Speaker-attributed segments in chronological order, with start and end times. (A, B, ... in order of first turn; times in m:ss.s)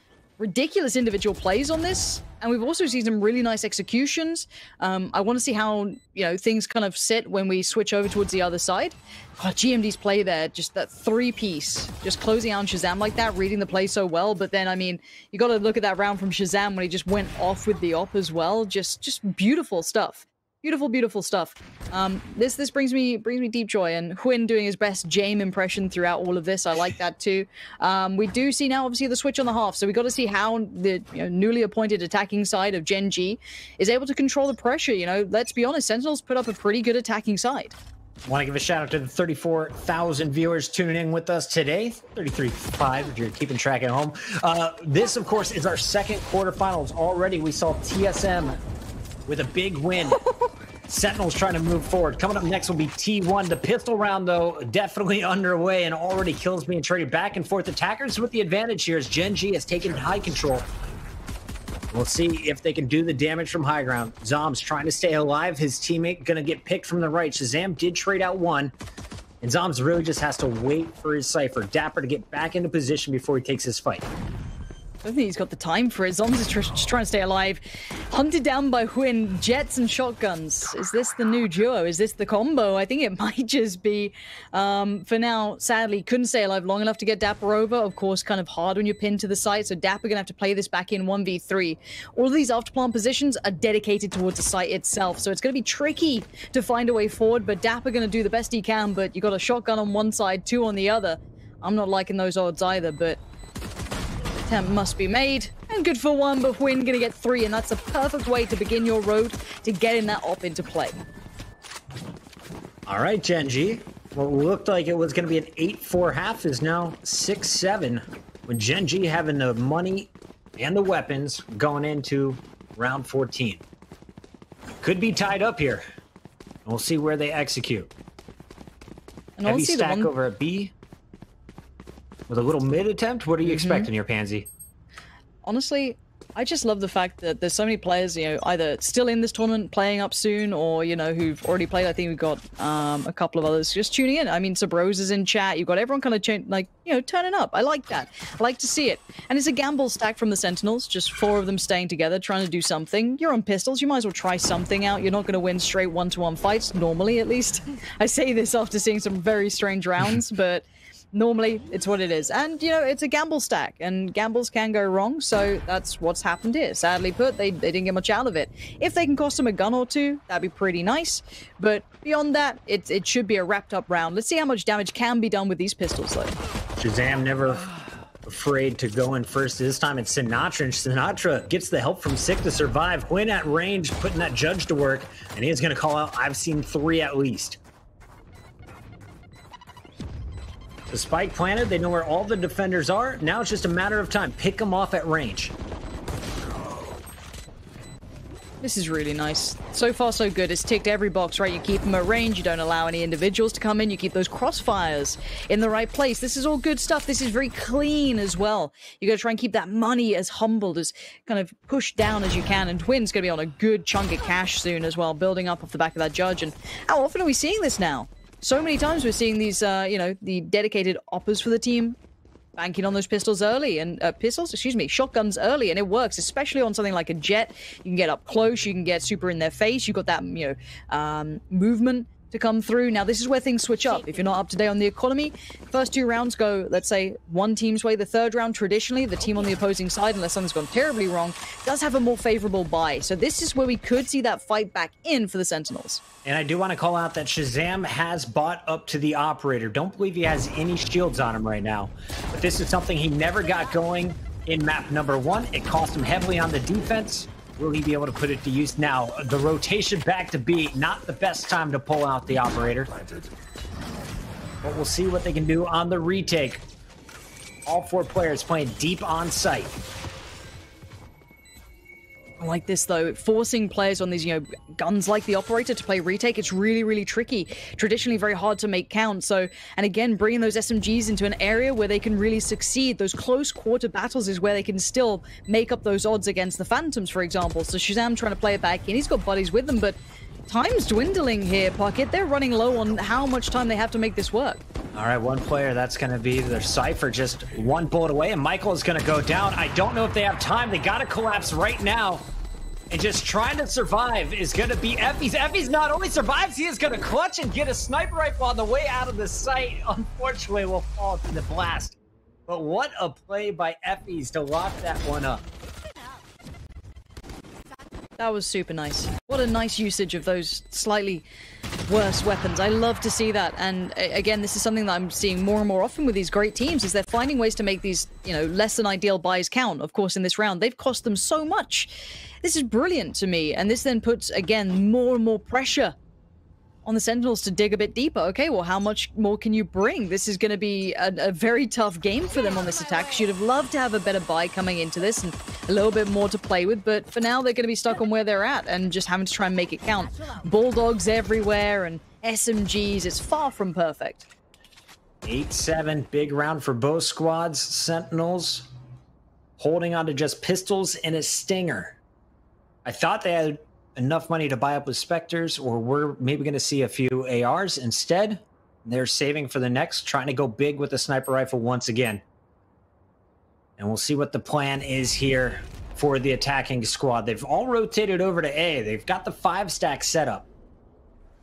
0:00.4-0:37.8 A
0:38.2-0:48.6 B
0:49.3-0:50.2 B
0:50.9-1:00.7 B
1:01.9-1:08.7 B
1:09.4-1:14.1 B
1:15.0-1:43.2 A
1:44.4-1:51.0 A
1:52.9-2:03.6 B
2:04.8-2:05.8 B
2:06.6-2:07.9 B
2:09.4-2:10.1 A
2:09.4-2:10.7 B
2:12.3-2:14.5 B
2:13.4-2:13.9 A
2:15.4-2:56.4 A
2:56.8-2:57.7 B
2:58.2-3:07.6 B
3:10.9-3:15.5 B
3:18.6-3:42.0 A
3:42.6-4:06.0 A
4:06.2-4:22.9 B
4:24.6-4:26.6 B
4:27.6-4:29.8 B
4:32.4-4:54.6 A
4:54.9-5:02.3 B
5:02.9-5:12.0 B
5:12.5-5:15.4 B
5:18.2-5:21.2 A
5:21.9-5:36.0 A
5:36.8-5:54.3 A
5:55.2-5:58.7 B
5:59.6-6:02.0 B
6:02.8-6:12.2 B
6:13.8-6:20.5 B